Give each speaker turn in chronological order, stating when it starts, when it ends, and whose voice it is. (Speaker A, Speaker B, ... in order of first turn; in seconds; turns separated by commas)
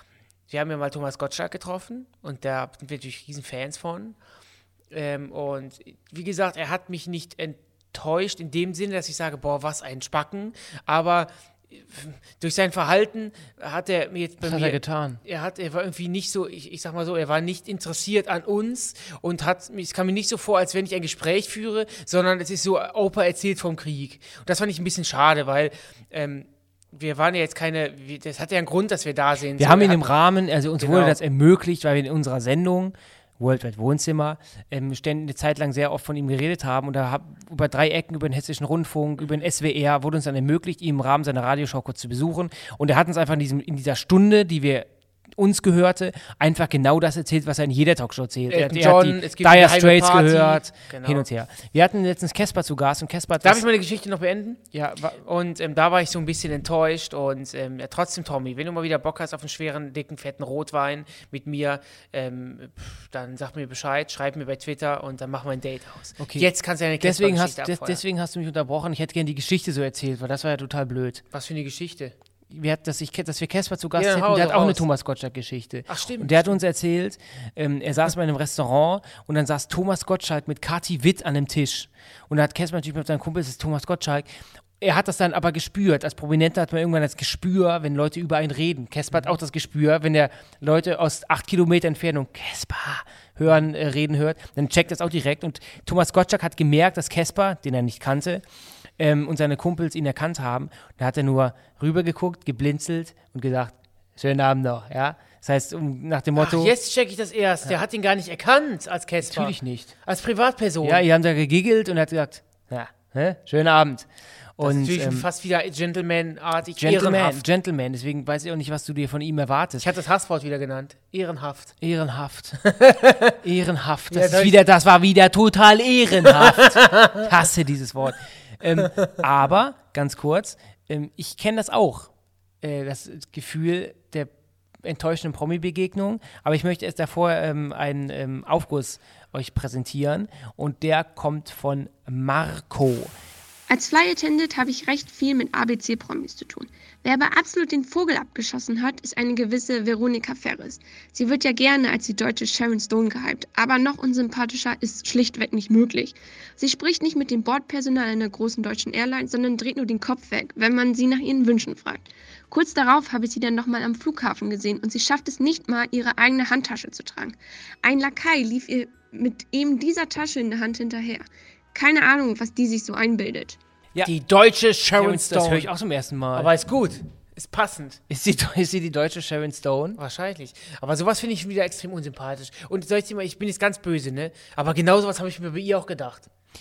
Speaker A: 0.5-4.2, Speaker A: 4.9-30.1, Speaker B: 14.4-15.2, Speaker B: 29.6-53.6, Speaker A: 30.8-31.2, Speaker A: 48.5-51.3, Speaker A: 53.4-68.0, Speaker B: 66.2-66.5, Speaker B: 67.0-71.2, Speaker A: 71.3-72.2, Speaker B: 72.5-84.3, Speaker A: 74.0-74.8, Speaker A: 75.9-76.6, Speaker B: 84.8-98.4, Speaker B: 99.0-106.7, Speaker A: 106.4-109.5, Speaker B: 109.2-109.9, Speaker A: 110.1-111.0, Speaker B: 110.8-115.3, Speaker A: 114.6-117.4, Speaker B: 116.8-119.9, Speaker A: 119.8-121.7, Speaker B: 121.8-122.6, Speaker A: 122.6-123.4, Speaker B: 123.4-132.1, Speaker A: 124.1-124.6, Speaker A: 126.3-127.3, Speaker B: 132.6-134.3, Speaker B: 134.8-143.1, Speaker C: 143.7-173.6, Speaker B: 173.9-176.5, Speaker A: 174.0-175.7, Speaker A: 176.3-178.0, Speaker B: 178.1-180.0, Speaker A: 180.0-186.3